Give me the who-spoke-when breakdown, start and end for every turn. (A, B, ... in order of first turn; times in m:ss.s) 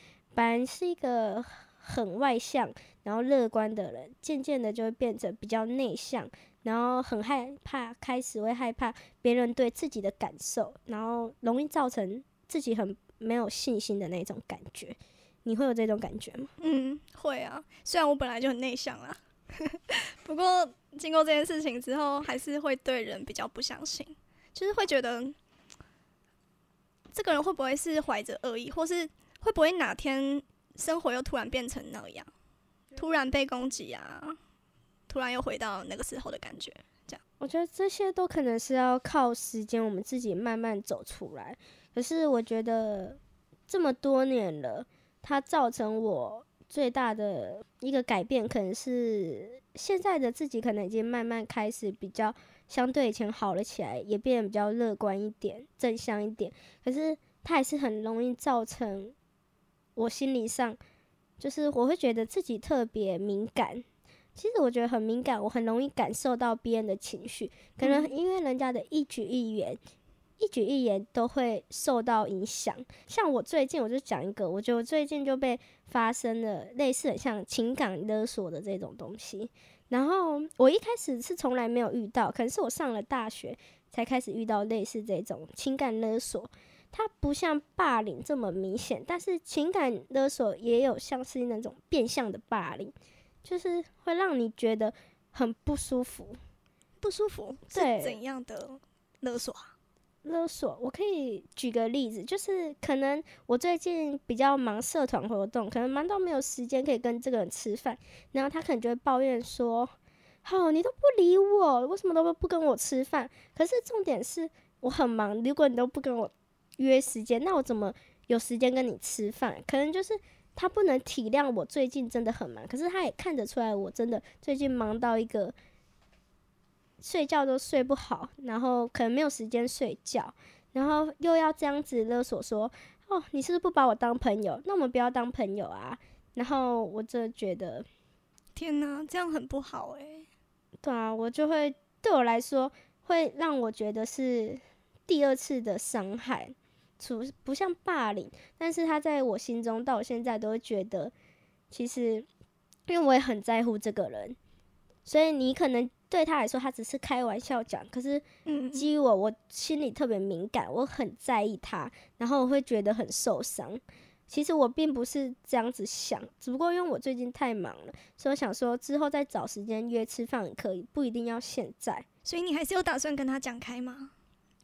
0:00.3-0:16.5 A
0:16.6-0:25.4 B
0:27.1-0:32.3 B
0:33.0-0:34.4 B
0:35.1-0:37.2 B
0:37.4-0:59.2 A
1:00.0-1:00.8 A
1:01.4-1:03.8 A
1:04.4-1:09.8 A
1:07.8-1:08.1 B
1:10.4-1:36.4 A
1:37.0-1:39.7 B
1:37.7-1:38.2 A
1:40.2-2:05.6 A
2:07.0-2:17.9 A
2:18.6-2:20.3 B
2:20.8-2:31.1 A
2:31.7-2:32.3 A
2:32.9-2:34.4 A
2:35.0-2:52.0 A
2:38.5-2:38.9 B
2:52.2-2:54.1 B